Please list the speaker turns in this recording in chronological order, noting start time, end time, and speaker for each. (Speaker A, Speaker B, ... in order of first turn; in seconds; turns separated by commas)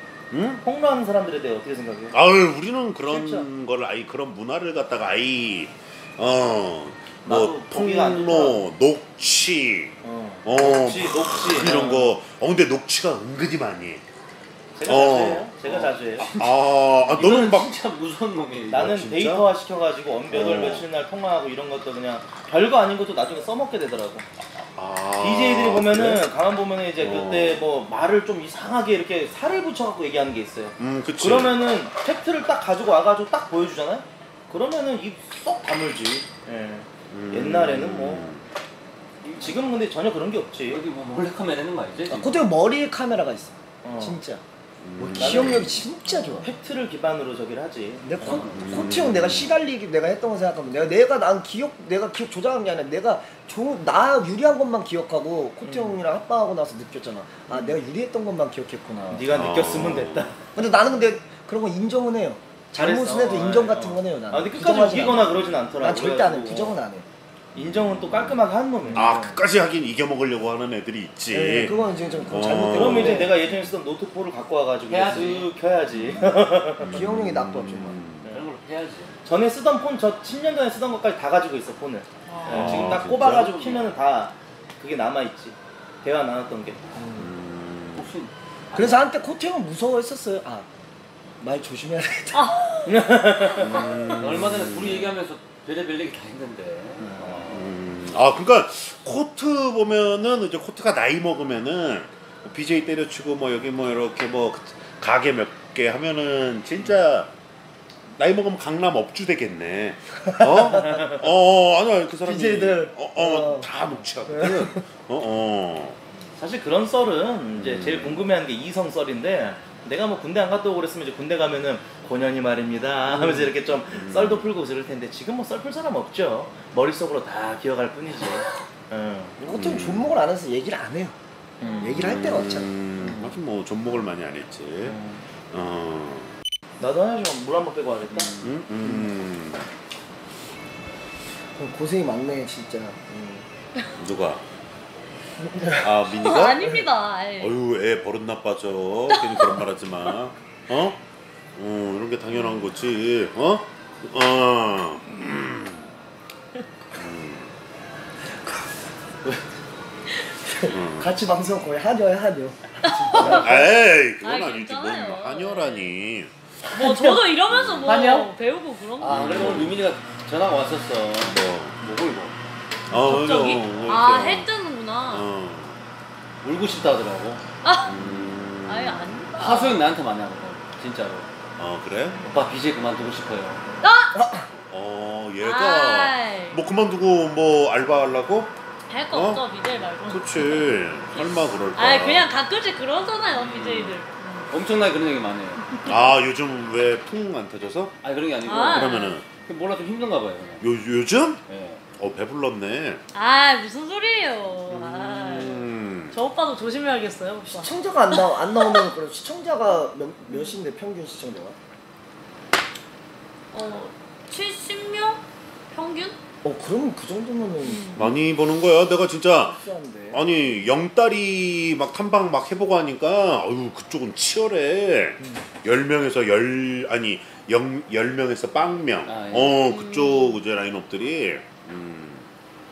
Speaker A: 0.3-0.6, Speaker B: 0.6-2.2, Speaker A: 2.1-14.0, Speaker B: 3.1-3.5, Speaker B: 7.2-8.6, Speaker B: 10.0-12.2, Speaker B: 14.8-16.3, Speaker A: 14.9-17.7, Speaker C: 16.2-19.0, Speaker B: 18.7-24.3, Speaker A: 18.7-19.5, Speaker A: 20.3-20.9, Speaker A: 24.6-26.3, Speaker B: 25.2-38.3, Speaker A: 27.0-27.6, Speaker A: 30.8-31.6, Speaker A: 37.1-38.4, Speaker B: 39.2-40.8, Speaker C: 40.7-42.4, Speaker D: 42.1-44.4, Speaker B: 43.8-44.2, Speaker A: 44.8-45.8, Speaker D: 45.0-46.5, Speaker B: 45.2-45.6, Speaker B: 46.4-48.5, Speaker D: 48.0-59.3, Speaker A: 48.5-49.5, Speaker B: 55.6-56.0, Speaker B: 59.1-60.4, Speaker A: 59.3-60.3, Speaker D: 60.5-67.1, Speaker B: 62.7-66.8, Speaker A: 65.4-65.7, Speaker B: 67.5-69.4, Speaker A: 67.6-68.4, Speaker A: 68.9-73.3, Speaker D: 71.3-73.3, Speaker B: 72.7-77.0, Speaker C: 74.9-75.5, Speaker A: 76.8-78.3, Speaker D: 76.8-78.0, Speaker C: 78.3-79.1, Speaker B: 79.2-87.0, Speaker E: 82.3-83.0, Speaker A: 82.5-83.8, Speaker D: 87.0-87.3, Speaker A: 87.2-88.1, Speaker C: 88.0-89.1, Speaker D: 88.7-90.7, Speaker D: 91.4-92.6, Speaker E: 92.3-94.1, Speaker B: 92.8-93.9, Speaker A: 93.6-95.2, Speaker C: 94.2-97.7, Speaker D: 97.0-97.4, Speaker A: 97.5-107.3, Speaker A: 108.2-116.0, Speaker D: 110.2-111.0, Speaker B: 110.8-111.2, Speaker D: 112.2-113.7, Speaker D: 114.2-114.8, Speaker B: 116.4-129.4, Speaker A: 117.6-118.2, Speaker D: 123.1-123.5, Speaker A: 123.9-124.5, Speaker D: 129.4-131.2, Speaker A: 129.5-130.1, Speaker B: 131.6-132.1, Speaker E: 131.6-132.0, Speaker D: 131.8-133.2, Speaker A: 131.9-135.0, Speaker B: 134.8-135.2, Speaker A: 135.5-136.3, Speaker B: 136.8-138.3, Speaker A: 138.4-139.7, Speaker D: 141.6-143.5, Speaker A: 144.0-144.4, Speaker D: 145.4-146.1, Speaker A: 145.8-146.7, Speaker E: 146.2-147.5, Speaker A: 147.4-151.0, Speaker E: 149.1-149.6, Speaker A: 151.6-155.9, Speaker E: 152.3-152.7, Speaker A: 156.9-157.5, Speaker D: 160.5-163.5, Speaker A: 160.7-161.2, Speaker E: 162.8-166.0, Speaker A: 163.2-166.3, Speaker C: 166.7-167.2, Speaker E: 166.8-169.7, Speaker A: 167.5-168.0, Speaker C: 167.8-168.3, Speaker C: 169.0-172.4, Speaker A: 169.1-169.8, Speaker A: 171.2-171.8, Speaker A: 172.9-174.5, Speaker E: 173.0-175.3, Speaker A: 175.1-175.8, Speaker C: 176.4-177.4, Speaker E: 177.6-178.0, Speaker A: 177.9-179.2, Speaker C: 178.0-178.3, Speaker E: 178.6-179.8, Speaker C: 179.4-181.3, Speaker A: 181.6-182.2, Speaker C: 182.2-183.6, Speaker E: 183.8-184.2, Speaker D: 184.1-184.5, Speaker A: 184.7-188.6, Speaker E: 185.4-186.6, Speaker E: 188.9-194.5, Speaker A: 189.1-189.4, Speaker A: 190.1-192.3, Speaker C: 193.4-193.9, Speaker C: 194.5-195.6, Speaker E: 195.7-196.0, Speaker A: 195.8-198.0, Speaker C: 198.0-200.6, Speaker E: 198.4-199.2, Speaker A: 198.6-199.2, Speaker A: 200.6-201.4, Speaker C: 201.5-201.8, Speaker A: 202.0-203.0, Speaker E: 203.1-208.9, Speaker A: 204.7-206.2, Speaker D: 207.5-211.6, Speaker E: 210.3-210.6, Speaker E: 213.5-216.2, Speaker D: 216.4-218.2, Speaker E: 217.7-218.0, Speaker A: 218.0-219.6, Speaker D: 219.4-220.2, Speaker A: 220.1-232.3, Speaker C: 229.1-229.6, Speaker E: 229.7-230.4